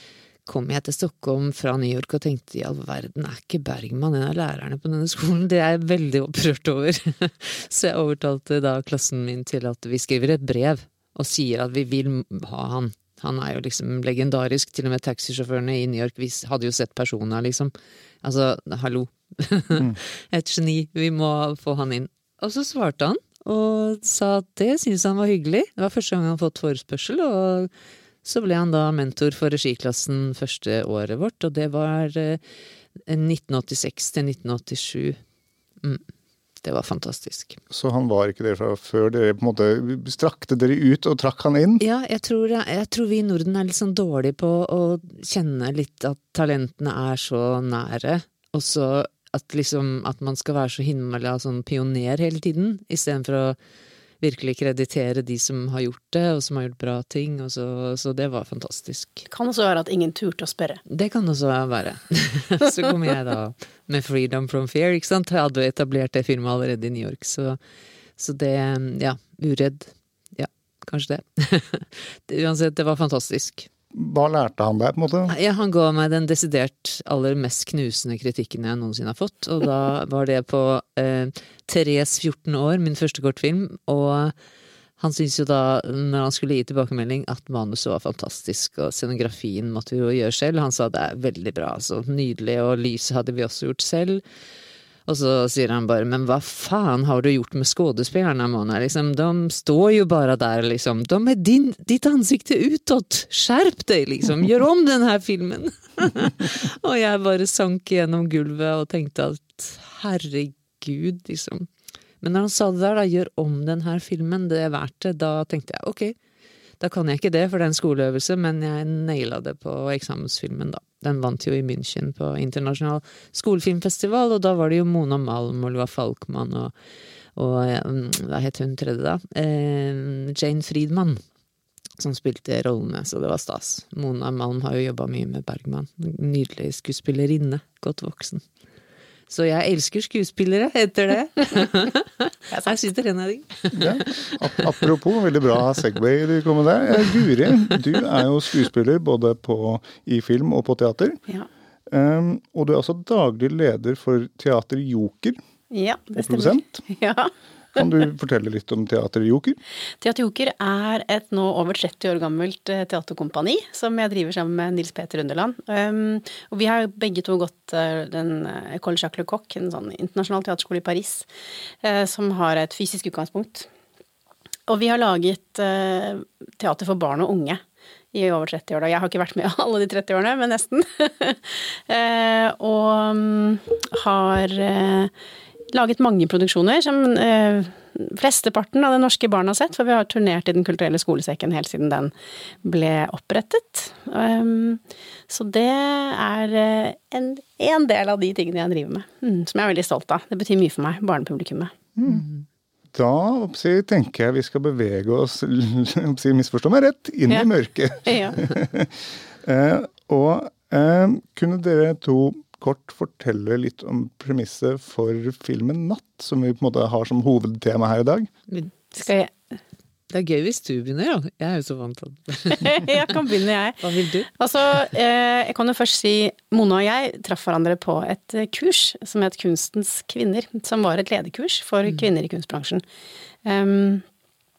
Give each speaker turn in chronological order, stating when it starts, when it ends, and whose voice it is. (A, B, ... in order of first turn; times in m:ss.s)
0:00.4-0:27.7 A
0:28.2-0:32.4 A
0:33.1-0:35.2 A
0:36.6-0:37.6 A
0:37.7-0:41.8 B
0:41.8-0:53.6 A
0:54.2-0:59.2 A
0:59.3-1:00.8 C
1:00.9-1:07.6 A
1:08.2-1:13.7 A
1:13.9-1:15.3 B
1:15.3-1:24.3 A
1:25.0-1:34.2 A
1:35.1-1:51.7 A
1:52.2-1:56.1 A
1:56.8-2:06.7 A
2:07.4-2:11.2 A
2:12.0-2:18.4 A
2:19.3-2:24.3 A
2:23.7-2:31.2 B
2:31.9-2:35.4 B
2:35.7-2:37.9 C
2:36.2-2:36.8 B
2:37.8-2:39.6 B
2:40.0-2:51.3 C
2:51.8-2:53.7 C
2:54.7-2:57.6 C
2:58.1-3:05.1 C
3:05.7-3:12.1 C
3:12.6-3:21.7 C
3:22.0-3:22.2 B
3:22.0-3:22.4 A
3:22.9-3:38.3 B
3:28.0-3:28.4 C
3:38.9-3:39.3 C
3:40.1-3:42.9 A
3:42.6-3:52.8 C
3:43.8-3:44.3 A
3:53.4-3:54.0 C